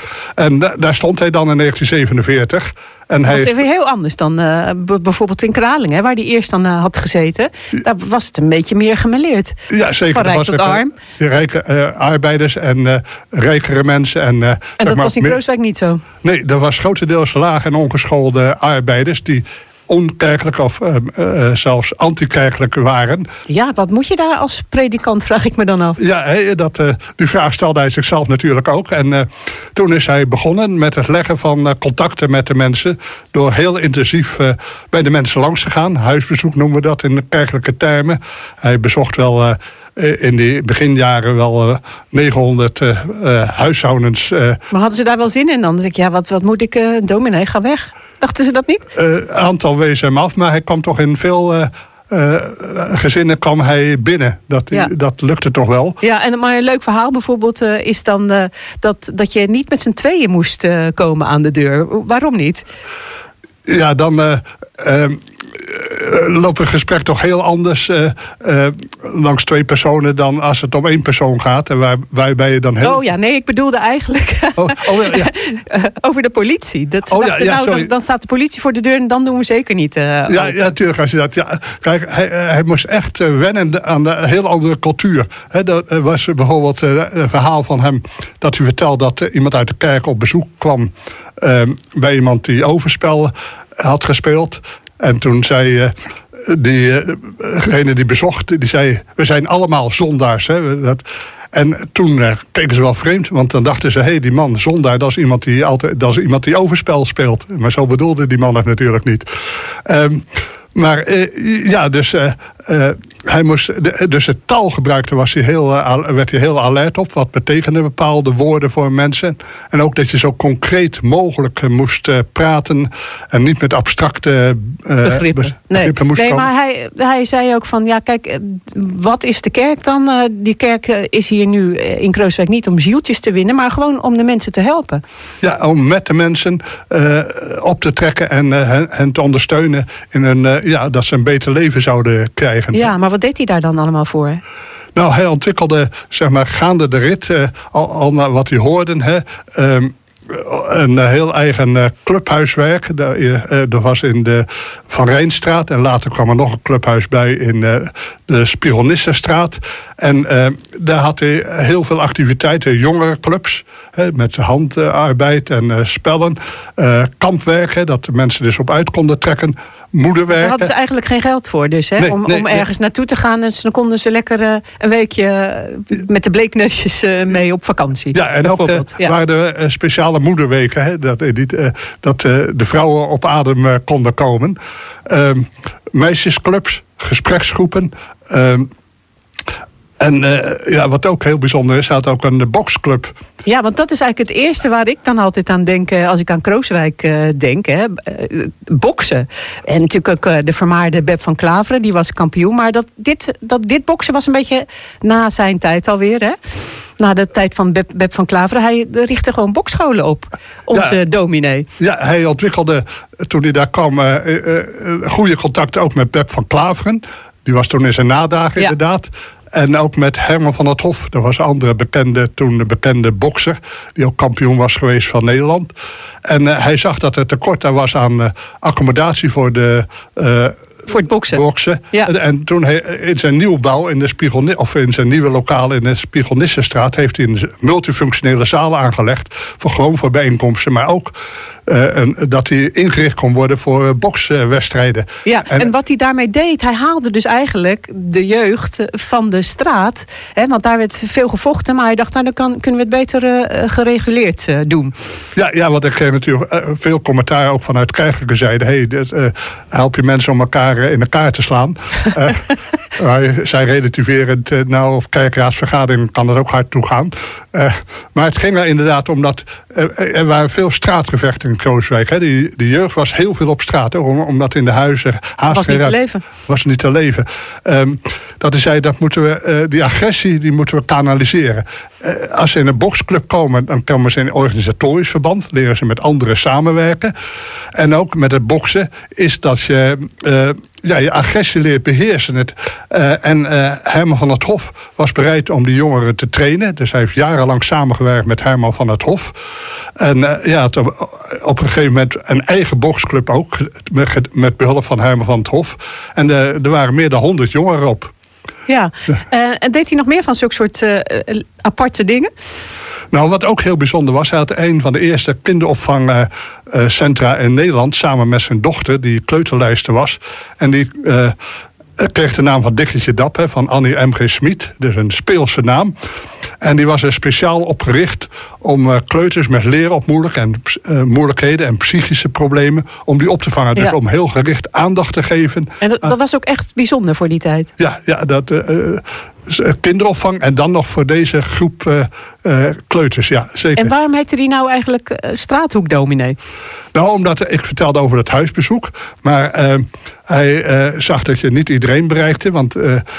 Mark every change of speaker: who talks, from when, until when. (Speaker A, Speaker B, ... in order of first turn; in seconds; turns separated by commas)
Speaker A: 0.4-3.5, Speaker B: 3.3-9.6, Speaker A: 9.7-15.4, Speaker B: 10.1-10.9, Speaker B: 14.8-16.0, Speaker A: 16.2-23.3, Speaker B: 23.5-26.0, Speaker A: 26.0-44.6, Speaker B: 44.7-48.8, Speaker A: 49.0-56.0, Speaker B: 56.0-62.6, Speaker A: 63.7-73.0, Speaker B: 72.8-80.6, Speaker A: 74.6-75.3, Speaker A: 77.1-77.9, Speaker A: 80.3-95.9, Speaker A: 96.5-109.3, Speaker A: 109.9-126.5, Speaker B: 125.0-135.0, Speaker A: 135.4-142.9, Speaker B: 142.7-144.4, Speaker A: 145.0-170.7, Speaker B: 170.3-179.2, Speaker A: 172.0-172.7, Speaker A: 178.1-184.6, Speaker A: 185.1-188.7, Speaker A: 190.0-193.1, Speaker B: 193.5-206.4, Speaker B: 207.0-211.7, Speaker A: 210.7-211.0, Speaker A: 211.8-225.7, Speaker A: 226.3-241.1, Speaker B: 230.9-232.1, Speaker A: 241.7-245.7, Speaker B: 245.3-254.9, Speaker A: 255.4-262.5, Speaker A: 263.0-287.1, Speaker B: 275.5-276.2, Speaker A: 287.8-299.4, Speaker A: 300.0-308.1, Speaker B: 308.7-312.3, Speaker A: 313.1-321.4, Speaker A: 322.0-325.9, Speaker A: 326.6-335.7, Speaker B: 335.8-337.7, Speaker A: 337.8-343.9, Speaker B: 343.8-346.4, Speaker A: 346.9-353.0